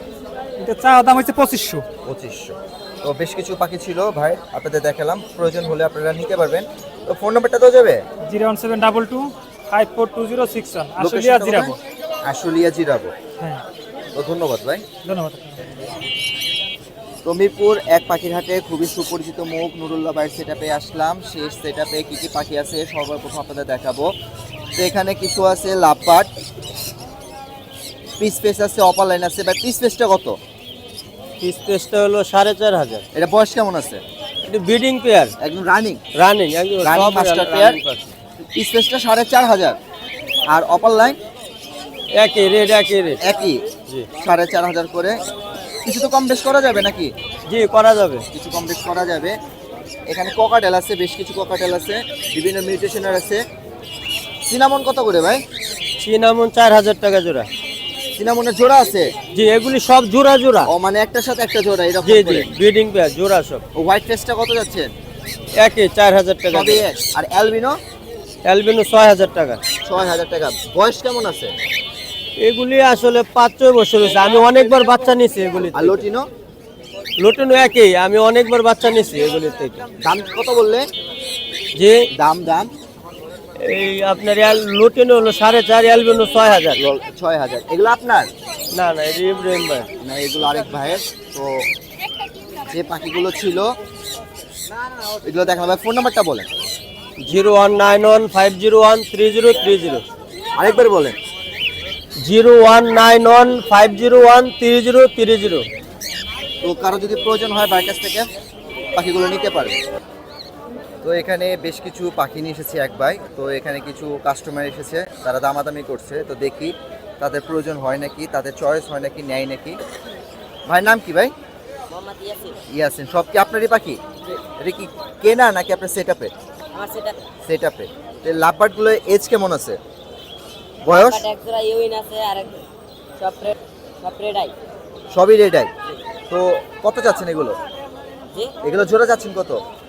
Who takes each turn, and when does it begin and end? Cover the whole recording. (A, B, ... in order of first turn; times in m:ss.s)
0:00.6-0:01.8 A
0:02.1-0:08.0 B
0:08.3-0:11.8 A
0:11.0-0:11.8 B
0:12.3-0:13.2 B
0:14.2-0:14.8 B
0:15.0-0:15.6 A
0:17.2-0:24.1 B
0:24.8-0:26.3 B
0:28.2-0:30.4 B
0:31.4-0:33.0 C
0:33.1-0:34.0 B
0:34.4-0:35.3 C
0:35.4-0:36.0 B
0:36.1-0:38.1 C
0:36.8-0:37.8 B
0:38.6-0:39.8 B
0:40.5-0:41.2 B
0:42.1-0:43.2 C
0:43.2-0:43.6 B
0:44.2-0:45.2 B
0:45.8-0:47.1 B
0:47.5-0:48.2 C
0:48.3-0:49.3 B
0:50.1-0:53.4 B
0:54.5-0:55.4 B
0:56.0-0:57.5 C
0:58.2-0:59.1 B
0:59.3-1:00.7 C
1:00.7-1:02.5 B
1:02.0-1:03.6 C
1:03.8-1:04.9 B
1:05.6-1:06.9 C
1:06.5-1:07.8 B
1:08.4-1:09.6 C
1:09.8-1:11.6 B
1:12.4-1:16.1 C
1:15.7-1:16.3 B
1:17.2-1:19.8 C
1:20.0-1:20.9 B
1:21.8-1:22.1 C
1:22.1-1:22.7 B
1:23.6-1:26.8 C
1:26.8-1:28.3 B
1:28.7-1:29.9 C
1:30.0-1:31.7 B
1:32.7-1:33.7 B
1:35.2-1:36.5 B
1:37.2-1:40.0 C
1:40.6-1:41.2 B
1:42.2-1:45.7 C
1:46.6-1:48.3 B
1:49.0-1:49.8 B
1:51.0-1:59.8 B
2:00.7-2:01.3 B
2:01.9-2:02.6 D
2:02.7-2:04.0 B
2:04.6-2:06.3 B
2:06.8-2:07.2 D
2:07.4-2:09.8 B
2:10.8-2:11.3 B
2:10.9-2:12.6 D
2:13.2-2:14.5 D
2:15.1-2:15.7 B
2:16.3-2:17.6 B
2:18.6-2:19.6 B